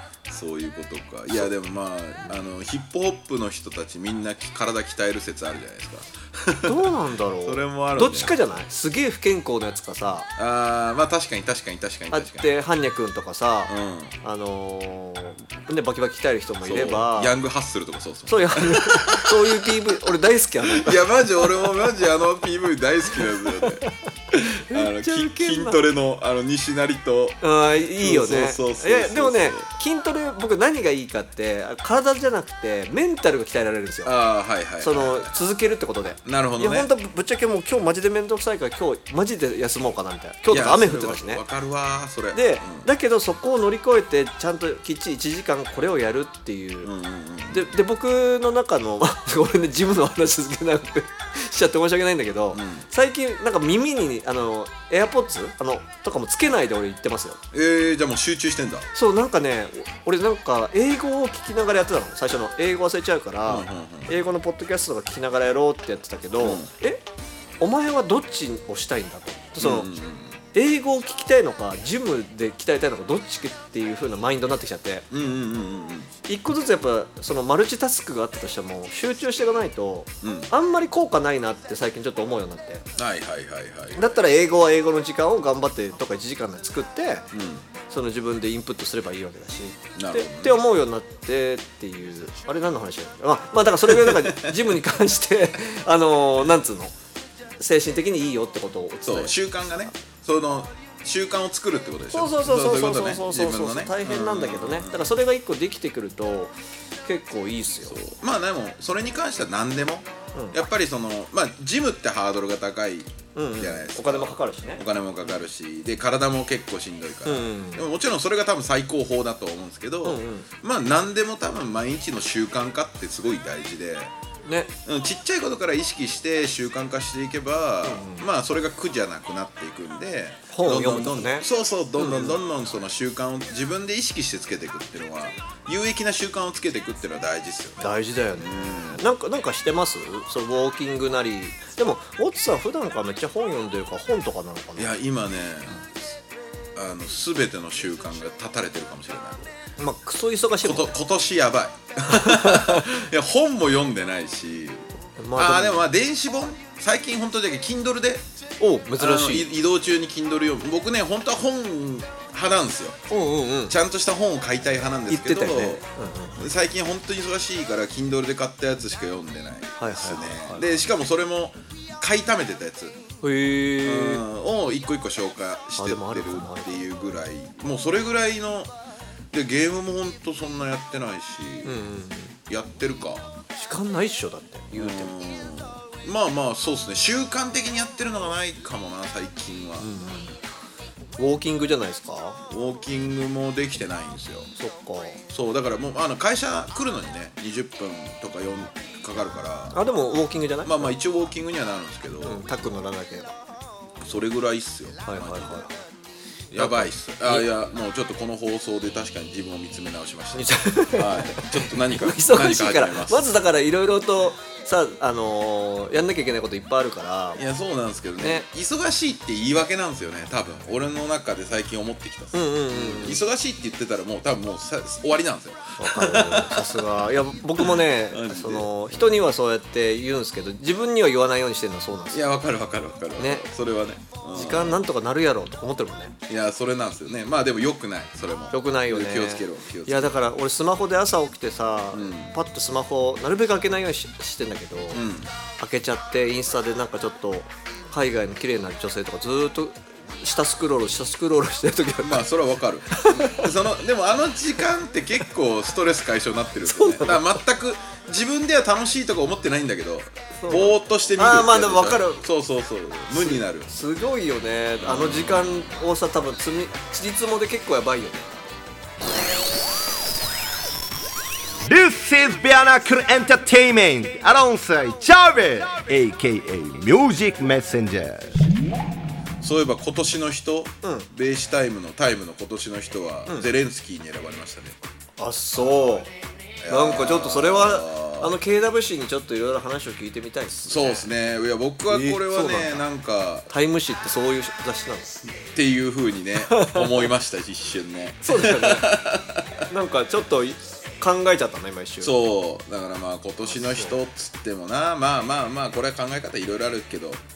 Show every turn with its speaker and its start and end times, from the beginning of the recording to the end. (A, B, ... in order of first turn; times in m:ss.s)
0:00.3-0:08.4 A
0:06.6-0:10.3 B
0:10.4-0:12.5 A
0:12.1-0:17.3 B
0:13.7-0:14.1 A
0:16.6-0:19.8 A
0:18.3-0:21.0 B
0:20.6-0:27.4 A
0:23.6-0:23.9 B
0:24.7-0:25.8 B
0:27.4-0:34.1 B
0:28.0-0:29.7 A
0:34.0-0:35.3 A
0:34.8-0:41.4 B
0:36.2-0:36.9 A
0:40.5-0:42.9 A
0:42.3-0:46.9 B
0:46.8-0:47.7 A
0:47.5-0:57.4 B
0:52.5-0:52.9 A
0:57.5-0:58.9 A
0:58.9-1:07.0 B
1:03.4-1:04.2 A
1:06.4-1:06.7 A
1:07.6-1:09.9 B
1:09.6-1:10.4 A
1:10.5-1:15.0 B
1:15.1-1:16.1 A
1:16.3-1:22.8 B
1:20.2-1:20.5 A
1:23.0-1:24.2 A
1:23.9-1:27.3 B
1:27.3-1:27.7 A
1:27.9-1:36.9 B
1:30.0-1:30.6 A
1:33.9-1:34.6 A
1:37.6-1:39.4 B
1:39.0-1:45.1 A
1:42.1-1:46.5 B
1:47.0-1:48.0 B
1:47.8-2:04.1 A
1:53.3-1:54.8 B
1:57.2-1:57.8 B
2:00.0-2:00.5 B
2:04.4-2:04.7 B
2:04.8-2:19.0 A
2:07.8-2:08.3 B
2:10.5-2:11.4 B
2:12.0-2:12.4 B
2:17.8-2:25.0 B
2:24.8-2:25.8 A
2:26.7-2:29.5 A
2:29.8-2:30.9 B
2:30.6-2:38.2 A
2:32.1-2:32.8 B
2:35.2-2:35.8 B
2:38.6-2:39.5 B
2:39.0-2:43.0 A
2:43.1-2:43.7 B
2:43.7-2:45.8 A
2:45.1-2:46.5 B
2:46.4-2:53.0 A
2:49.8-2:50.7 B
2:53.2-2:54.2 B
2:53.8-2:58.7 A
2:55.8-2:56.8 B
2:59.3-3:01.8 A
3:01.6-3:02.4 B
3:02.5-3:03.3 A
3:03.5-3:05.1 B
3:04.7-3:09.9 A
3:09.8-3:10.4 B
3:11.2-3:12.4 B
3:12.5-3:14.5 A
3:14.6-3:15.2 B
3:15.3-3:19.8 A
3:19.7-3:21.0 B
3:20.6-3:22.5 A
3:22.2-3:23.3 B
3:24.0-3:25.7 A
3:25.0-3:25.8 B
3:26.5-3:33.3 A
3:26.5-3:27.5 B
3:30.3-3:37.4 B
3:37.4-3:46.8 A
3:38.2-3:38.4 B
3:42.3-3:43.2 B
3:45.8-3:52.2 B
3:47.6-3:49.2 A
3:52.1-3:54.9 A
3:53.2-3:53.4 B
3:54.3-3:56.2 B
3:56.3-4:00.2 A
3:58.5-4:05.0 B
4:01.9-4:02.3 A
4:04.9-4:05.3 A
4:05.6-4:12.2 B
4:12.0-4:23.7 A
4:12.9-4:13.5 B
4:16.6-4:17.4 B
4:20.4-4:22.2 B
4:23.1-4:28.4 B
4:24.8-4:25.7 A
4:31.6-4:38.4 C
4:39.4-4:44.8 A
4:45.2-4:46.1 B
4:46.6-4:48.4 A
4:46.7-4:51.1 B
4:50.6-4:53.5 A
4:51.9-4:52.8 B
4:53.5-4:55.3 B
4:55.5-4:59.7 A
4:56.5-4:57.1 B
4:58.2-4:59.0 B
4:59.7-5:02.1 B
5:02.0-5:07.2 A
5:03.5-5:04.0 B